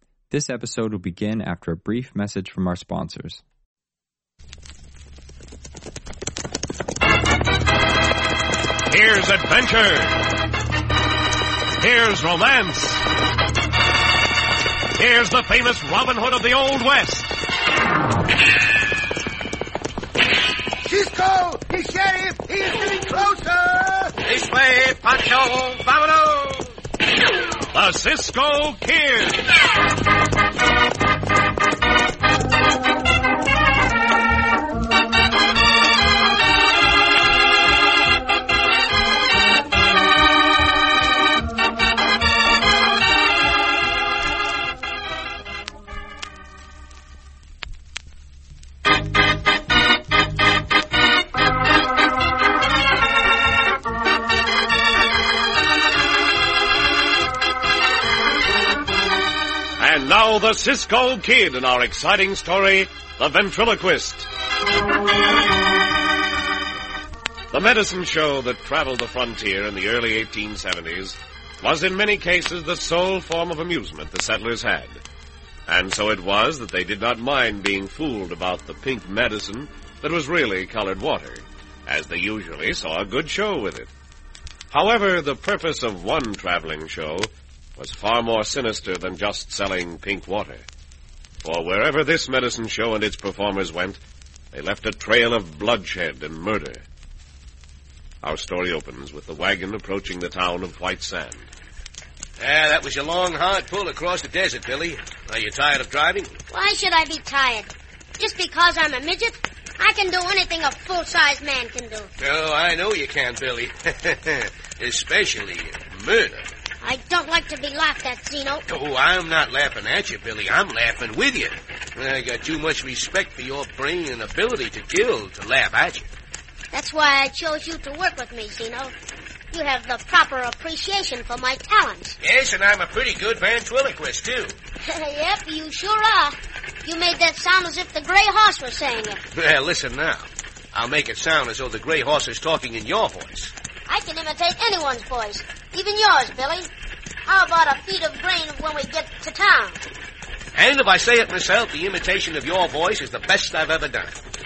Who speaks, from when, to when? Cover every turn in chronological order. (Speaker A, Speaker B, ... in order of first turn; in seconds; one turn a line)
Speaker A: 0.3-3.4
Speaker B: 8.9-10.2
Speaker B: 11.8-13.0
Speaker B: 14.9-17.4
Speaker C: 20.8-24.2
Speaker D: 24.2-26.7
Speaker B: 27.7-29.4
Speaker B: 59.8-64.3
Speaker B: 67.5-75.0
Speaker B: 75.7-83.9
Speaker B: 84.7-90.7
Speaker B: 91.4-94.0
Speaker B: 94.5-96.8
Speaker B: 98.2-101.5
Speaker D: 102.4-106.4
Speaker E: 106.5-112.1
Speaker D: 112.2-116.5
Speaker E: 116.8-118.6
Speaker D: 118.7-126.1
Speaker E: 126.7-128.9
Speaker E: 129.5-132.2
Speaker D: 132.2-134.5
Speaker E: 134.8-139.2
Speaker D: 139.3-143.5
Speaker E: 143.9-146.7
Speaker E: 147.3-149.8
Speaker D: 150.6-154.2